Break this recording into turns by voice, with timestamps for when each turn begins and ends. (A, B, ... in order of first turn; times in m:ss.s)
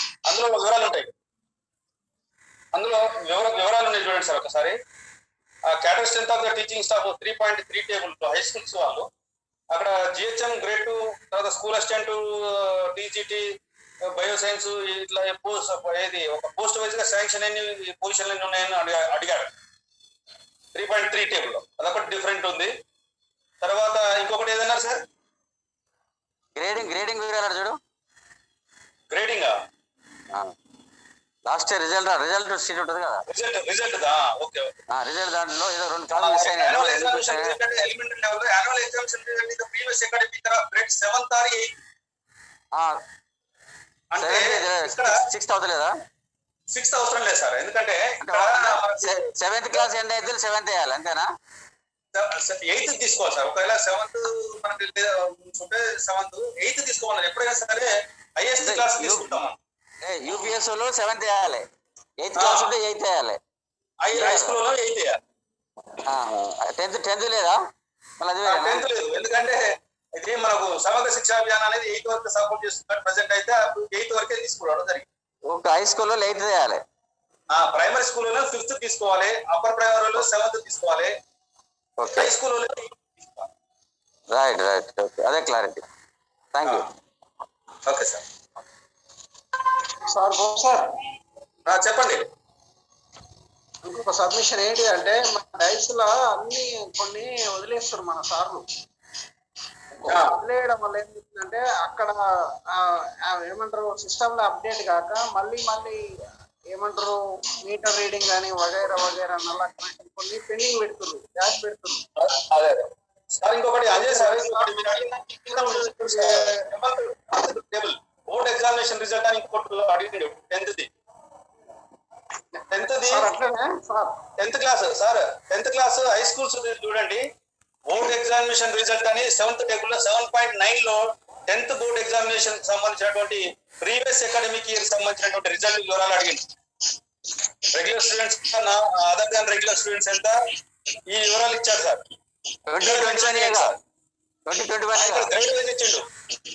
0:00.2-0:01.1 A
0:02.7-0:04.8 A
0:05.7-0:09.1 A
0:09.7-0:13.5 A
0:14.1-0:19.5 A
0:20.7-0:22.7 A
0:23.6-0:25.0 A
0:26.6-0:27.8 B
0:29.1-0:29.6 A
0:31.5-0:33.2 B
0:33.3-0:34.7 A
0:34.9-0:37.6 B
0:36.2-0:41.7 A
0:42.8-0:43.0 B
0:44.1-0:45.2 A
0:44.2-0:45.9 B
0:46.7-0:49.2 A
0:48.2-0:51.3 B
0:52.2-0:59.6 A
0:58.6-0:59.4 B
1:00.0-1:01.6 B
1:02.2-1:03.4 B
1:02.4-1:02.7 A
1:04.0-1:05.2 A
1:04.1-1:04.6 B
1:06.1-1:07.6 B
1:08.2-1:08.9 B
1:08.4-1:09.6 A
1:10.2-1:15.1 A
1:15.5-1:16.8 B
1:17.5-1:21.2 A
1:22.0-1:22.3 B
1:22.2-1:23.5 A
1:24.3-1:25.8 B
1:26.5-1:26.9 B
1:27.9-1:28.2 A
1:30.1-1:30.9 C
1:31.7-1:32.2 A
1:33.8-1:38.6 C
1:40.0-1:42.2 C
1:40.1-1:40.3 A
1:42.7-1:46.0 C
1:46.7-1:52.0 C
1:52.2-2:00.9 A
1:53.9-1:56.6 C
2:02.7-2:03.3 A
2:03.1-2:04.2 C
2:04.4-2:07.2 A
2:07.9-2:16.4 A
2:17.7-2:20.4 A
2:21.1-2:22.0 A
2:22.7-2:23.7 B
2:22.8-2:23.8 A
2:24.5-2:25.3 B
2:24.9-2:26.1 A